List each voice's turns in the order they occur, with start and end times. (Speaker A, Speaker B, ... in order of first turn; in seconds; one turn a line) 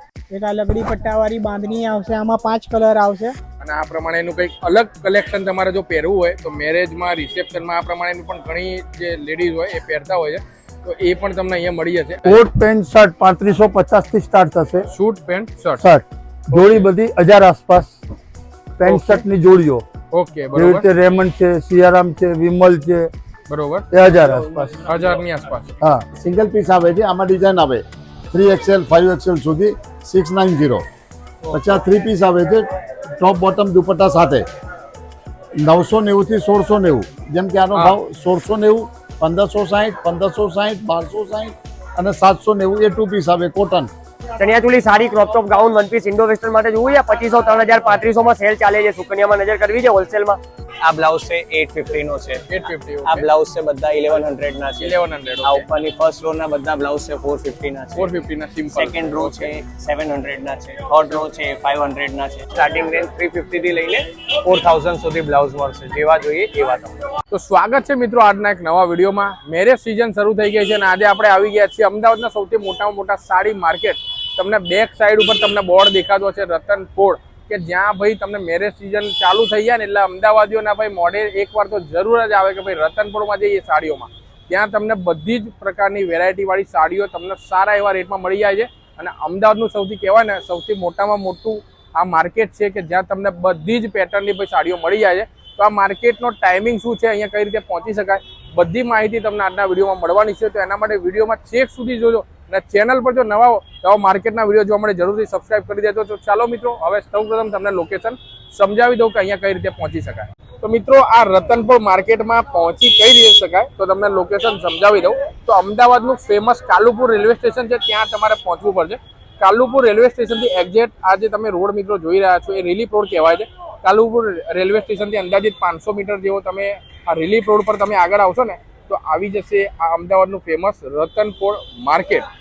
Speaker A: 0.3-3.3
Speaker B: 3.6-12.4
Speaker C: 12.2-14.9
Speaker B: 14.9-15.8
Speaker C: 15.8-17.9
Speaker B: 16.5-16.9
Speaker C: 18.8-19.8
Speaker B: 18.8-19.2
Speaker B: 20.1-20.9
Speaker C: 20.5-23.1
Speaker B: 23.5-23.9
Speaker C: 23.9-24.9
Speaker B: 24.8-25.7
Speaker D: 26.1-30.8
Speaker B: 31.4-31.8
Speaker D: 31.5-32.6
Speaker D: 33.2-34.5
Speaker D: 35.6-43.9
Speaker B: 37.7-38.0
Speaker E: 44.4-50.4
Speaker F: 50.8-52.4
Speaker B: 52.5-53.3
Speaker F: 53.0-58.1
Speaker B: 54.8-55.6
Speaker B: 57.9-59.5
Speaker F: 58.7-67.0
Speaker B: 67.3-132.2